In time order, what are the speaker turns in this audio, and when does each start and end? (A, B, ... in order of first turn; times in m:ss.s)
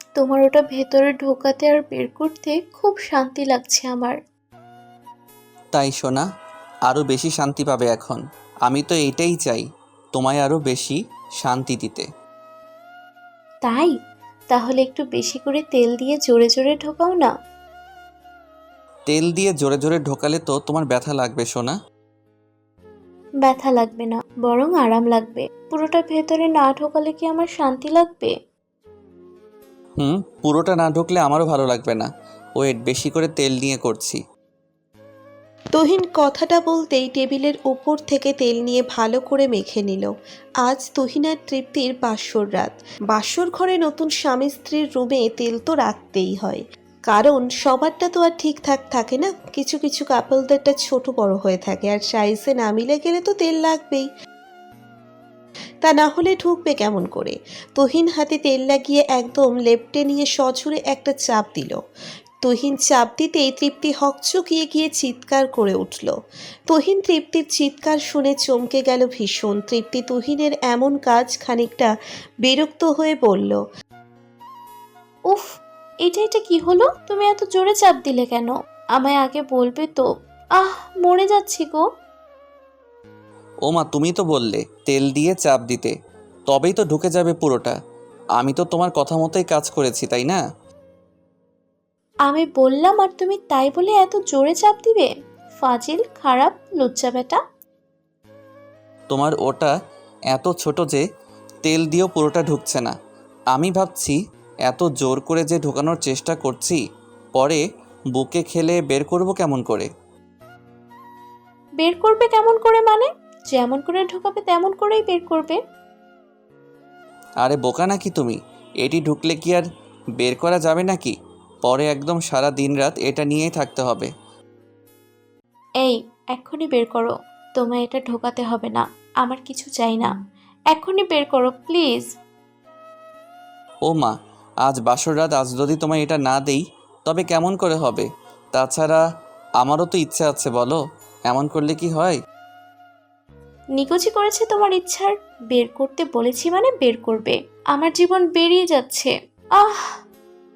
0:00.2-0:04.2 A
0:05.7-0:06.3 B
0:06.9-0:12.1 B
0:13.6-0:13.9 A
0:14.5-0:17.3 A
0:19.1-0:21.8 B
0:23.4-0:28.3 A
0:30.0-0:34.2 B
0:35.8-0:40.1 C
0:40.6-0:54.1 C
0:55.8-1:01.8 C
1:02.4-1:06.1 C
1:06.7-1:11.9 C
1:12.4-1:13.6 C
1:16.1-1:20.1 A
1:20.6-1:21.8 A
1:23.7-1:25.9 B
1:26.5-1:27.8 B
1:28.4-1:30.4 B
1:32.3-1:37.4 A
1:39.1-1:39.7 B
1:40.3-1:41.0 B
1:41.6-1:43.0 B
1:43.5-1:46.8 B
1:47.4-1:47.6 B
1:48.1-1:49.9 B
1:51.8-1:55.6 A
1:57.4-1:59.7 B
2:00.2-2:04.1 B
2:05.8-2:10.1 A
2:10.7-2:12.1 A
2:13.9-2:14.1 B
2:14.6-2:19.0 B
2:19.6-2:22.2 B
2:23.8-2:29.9 A